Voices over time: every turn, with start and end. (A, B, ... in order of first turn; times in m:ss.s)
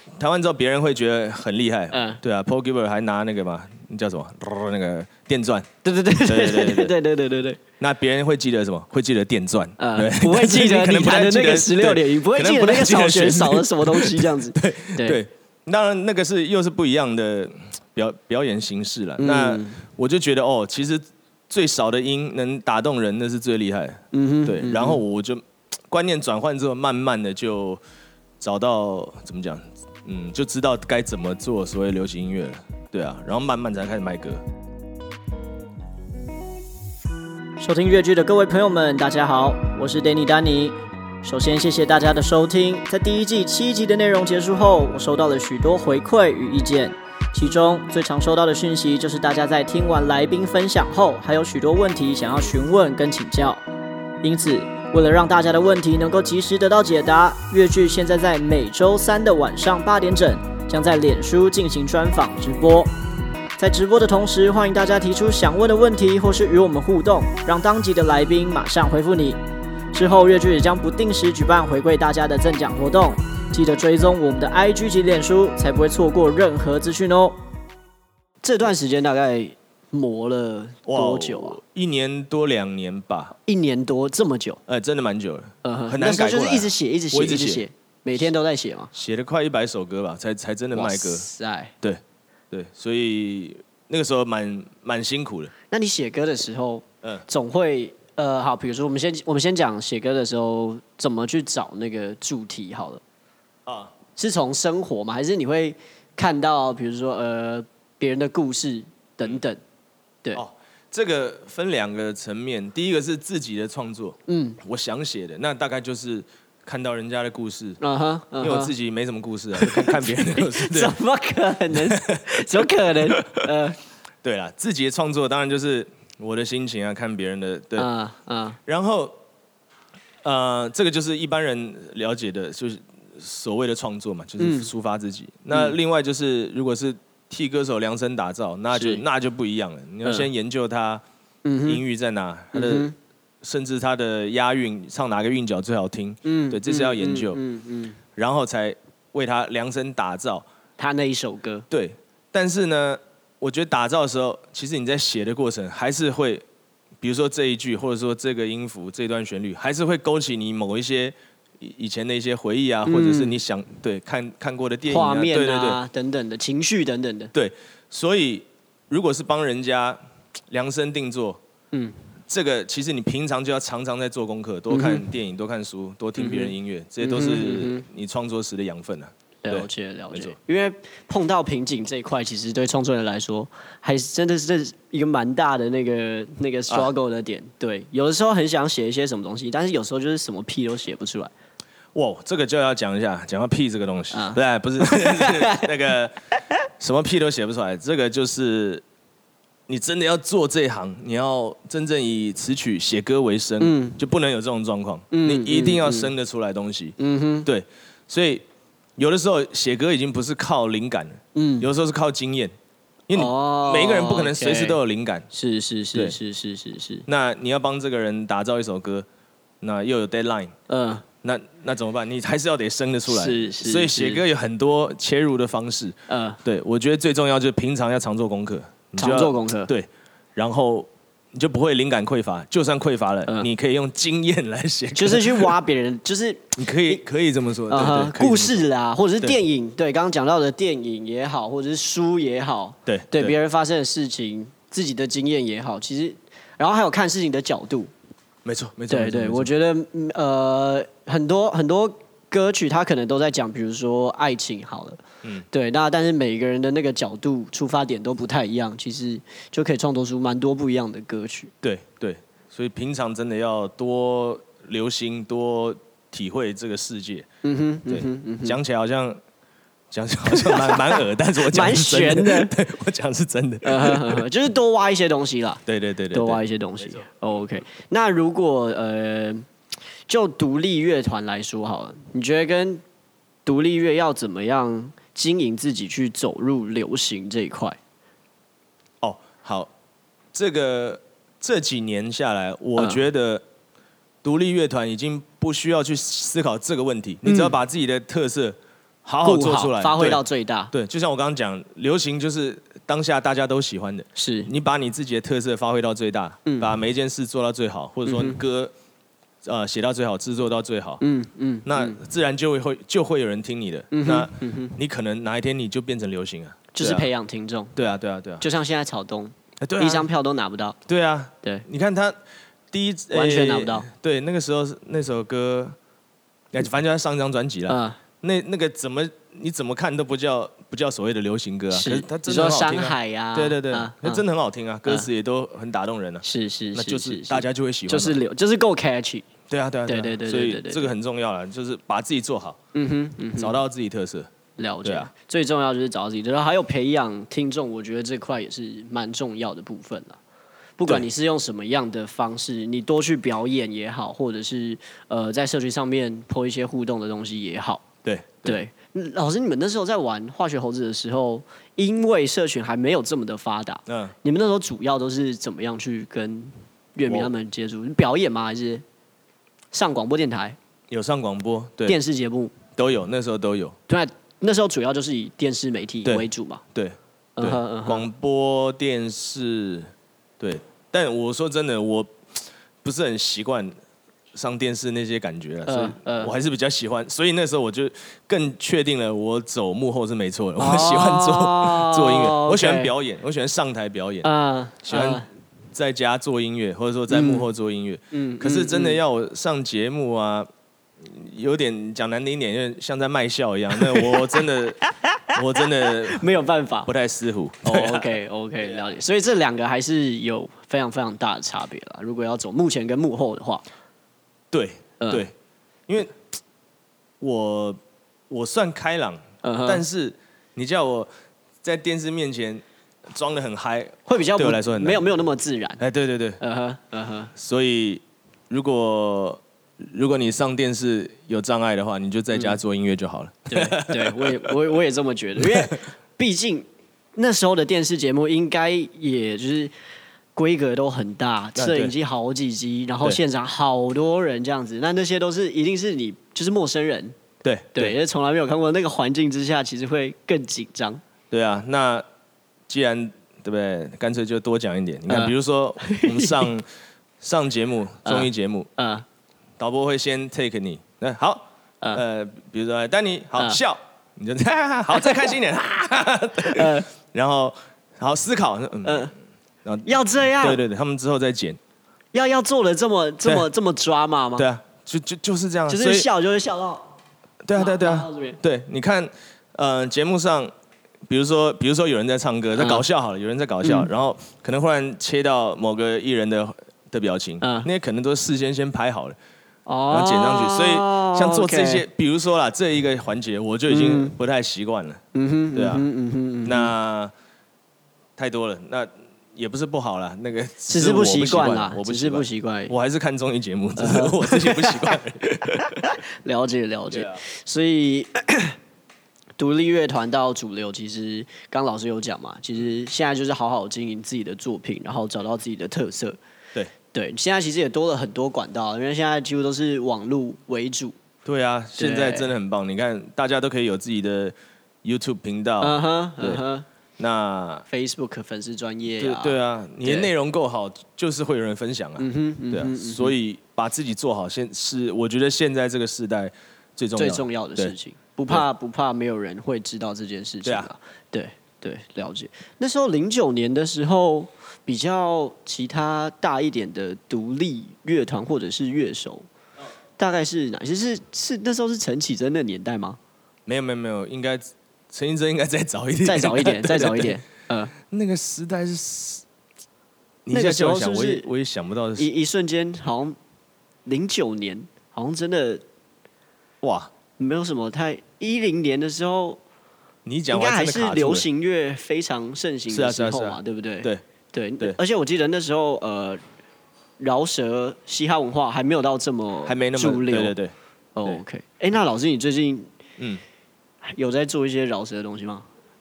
0:00.2-0:05.7 A
0:01.9-0:02.2 B
0:05.8-0:07.6 B
0:06.2-0:06.9 A
0:07.8-0:27.8 A
0:09.8-0:15.2 B
0:19.2-0:19.8 B
0:24.1-0:25.0 B
0:28.4-0:34.4 A
0:37.6-0:53.6 C
0:54.2-1:02.9 C
1:03.6-1:09.4 C
1:09.9-1:17.4 C
1:18.4-1:21.6 B
1:20.9-1:23.3 A
1:23.4-1:24.6 B
1:24.7-1:27.6 A
1:25.6-1:28.9 B
1:28.9-1:31.2 A
1:30.7-1:31.7 B
1:31.8-1:35.5 A
1:35.7-1:43.0 B
1:43.7-1:43.9 A
1:44.2-1:49.6 B
1:50.3-1:57.8 A
1:54.3-1:54.6 B
1:57.8-1:58.7 B
1:58.4-2:00.9 A
1:59.6-2:03.8 B
2:01.9-2:03.5 A
2:04.2-2:07.9 A
2:07.8-2:08.6 B
2:08.7-2:09.2 A
2:10.2-2:21.0 A
2:14.4-2:14.7 B
2:18.7-2:19.0 B
2:20.0-2:20.3 B
2:21.4-2:21.8 B
2:21.6-2:22.9 A
2:22.5-2:23.0 B
2:23.4-2:27.4 A
2:26.2-2:28.0 B
2:28.2-2:30.5 A
2:30.8-2:31.7 B
2:31.7-2:36.4 A
2:37.0-2:45.8 A
2:42.9-2:43.4 B
2:44.9-2:47.3 B
2:47.3-2:50.0 A
2:50.5-2:51.4 A
2:51.7-2:52.0 B
2:52.3-3:00.4 A
2:54.7-2:55.1 B
2:56.2-2:57.8 B
2:59.4-3:11.3 B
3:11.9-3:16.2 A
3:14.1-3:15.7 B
3:16.8-3:18.8 A
3:19.7-3:28.4 A
3:23.6-3:24.0 B
3:25.1-3:26.1 B
3:27.0-3:27.5 B
3:29.0-3:32.6 A
3:31.4-3:31.7 B
3:33.1-3:35.3 A
3:33.2-3:34.8 B
3:35.3-3:37.0 B
3:37.1-3:39.1 A
3:39.6-3:40.5 A
3:40.7-3:41.0 B
3:41.2-3:55.5 A
3:43.1-3:44.2 B
3:46.1-3:46.4 B
3:49.0-3:49.7 B
3:55.0-3:57.0 B
3:56.6-3:58.6 A
3:57.7-4:07.9 B
4:02.9-4:03.4 A
4:08.4-4:09.5 A
4:08.9-4:15.0 B
4:15.5-4:21.5 B
4:21.6-4:27.3 A
4:27.4-4:28.6 B
4:27.9-4:29.2 A
4:29.9-4:34.2 A
4:30.3-4:32.5 B
4:33.6-4:35.6 B
4:35.7-4:37.0 A
4:36.1-4:39.5 B
4:40.1-4:42.8 B
4:43.5-4:47.8 B
4:49.0-4:49.7 A
4:50.3-4:53.4 A
4:52.8-4:53.0 B
4:54.2-5:00.2 A
4:57.2-4:57.6 B
4:59.2-5:00.7 B
5:00.7-5:08.7 A
5:04.2-5:04.5 B
5:06.5-5:06.8 B
5:08.1-5:08.4 B
5:09.4-5:11.0 A
5:11.0-5:12.0 B
5:11.6-5:17.1 A
5:13.9-5:14.8 B
5:16.7-5:17.8 B
5:17.8-5:18.4 A
5:18.4-5:20.8 B
5:19.6-5:20.1 A
5:20.9-5:22.2 A
5:22.7-5:25.8 A
5:23.1-5:23.9 B
5:26.5-5:38.2 A
5:27.7-5:28.0 B
5:31.7-5:34.2 B
5:36.2-5:39.3 B
5:39.5-5:42.6 A
5:39.9-5:40.9 B
5:42.8-5:43.6 B
5:43.4-5:44.3 A
5:44.6-5:50.2 B
5:44.8-5:45.1 A
5:50.8-5:57.8 B
5:58.0-5:58.6 A
5:58.4-6:08.8 B
6:03.9-6:04.2 A
6:07.0-6:07.3 A
6:09.7-6:10.6 B
6:10.9-6:12.0 A
6:11.8-6:12.6 B
6:12.8-6:13.8 A
6:13.9-6:16.6 B
6:16.0-6:23.8 A
6:17.4-6:18.1 B
6:24.3-6:34.3 A
6:25.7-6:26.3 B
6:30.6-6:32.9 B
6:34.2-6:35.3 B
6:34.8-6:40.5 A
6:37.1-6:37.5 B
6:38.1-6:39.0 B
6:41.0-6:44.8 A
6:45.3-6:46.2 A
6:46.1-6:46.9 B
6:46.9-6:48.9 A
6:47.6-6:53.6 B
6:54.5-6:55.3 A
6:55.0-6:55.3 B
6:55.9-6:56.2 A
6:57.2-6:57.8 A
6:58.3-7:01.1 A
6:59.4-6:59.8 B
7:01.6-7:05.0 A
7:04.1-7:05.8 B
7:05.8-7:06.4 A
7:06.4-7:07.3 B
7:07.4-7:14.5 A
7:12.3-7:12.6 B
7:13.5-7:19.7 B
7:15.4-7:15.7 A
7:20.4-7:27.2 B
7:21.6-7:21.9 A
7:27.4-7:28.0 A
7:27.7-7:31.0 B
7:31.3-7:32.0 A
7:32.7-7:36.6 A
7:35.1-7:36.5 B
7:37.2-7:38.7 A
7:38.0-7:39.0 B
7:39.6-7:49.1 A
7:44.9-7:45.3 B
7:46.4-7:46.9 B
7:48.8-7:49.1 B
7:49.6-7:51.6 A
7:49.9-7:50.6 B
7:52.1-7:54.5 B
7:54.4-7:56.1 A
7:55.7-7:56.8 B
7:57.4-8:00.5 A
7:57.6-7:58.4 B
8:01.1-8:09.2 A
8:02.5-8:02.8 B
8:03.6-8:03.9 B
8:07.4-8:07.7 B
8:09.7-8:11.8 B
8:09.9-8:15.0 A
8:13.7-8:14.2 B
8:15.1-8:16.7 B
8:15.5-8:15.9 A
8:16.4-8:17.1 A
8:18.2-8:25.8 A
8:20.7-8:22.7 B
8:23.8-8:25.0 B
8:25.8-8:28.6 B
8:26.9-8:27.2 A
8:29.4-8:36.2 B
8:36.9-8:41.0 B
8:41.2-8:46.4 A
8:41.8-8:42.3 B
8:45.6-8:46.6 B
8:47.0-8:47.7 A
8:47.7-8:50.1 B
8:49.0-8:57.7 A
8:52.0-8:53.2 B
8:57.0-9:09.3 B
9:00.4-9:00.7 A
9:10.0-9:13.0 B
9:13.5-9:17.2 A
9:16.0-9:17.7 B
9:17.8-9:19.2 A
9:20.3-9:22.1 A
9:20.3-9:21.3 B
9:22.0-9:23.2 B
9:23.8-9:25.6 B
9:26.6-9:26.9 A
9:27.2-9:29.4 B
9:30.1-9:31.3 A
9:30.3-9:36.2 B
9:32.7-9:34.0 A
9:37.0-9:40.4 B
9:39.5-9:40.5 A
9:41.0-9:42.7 B
9:43.8-9:45.5 B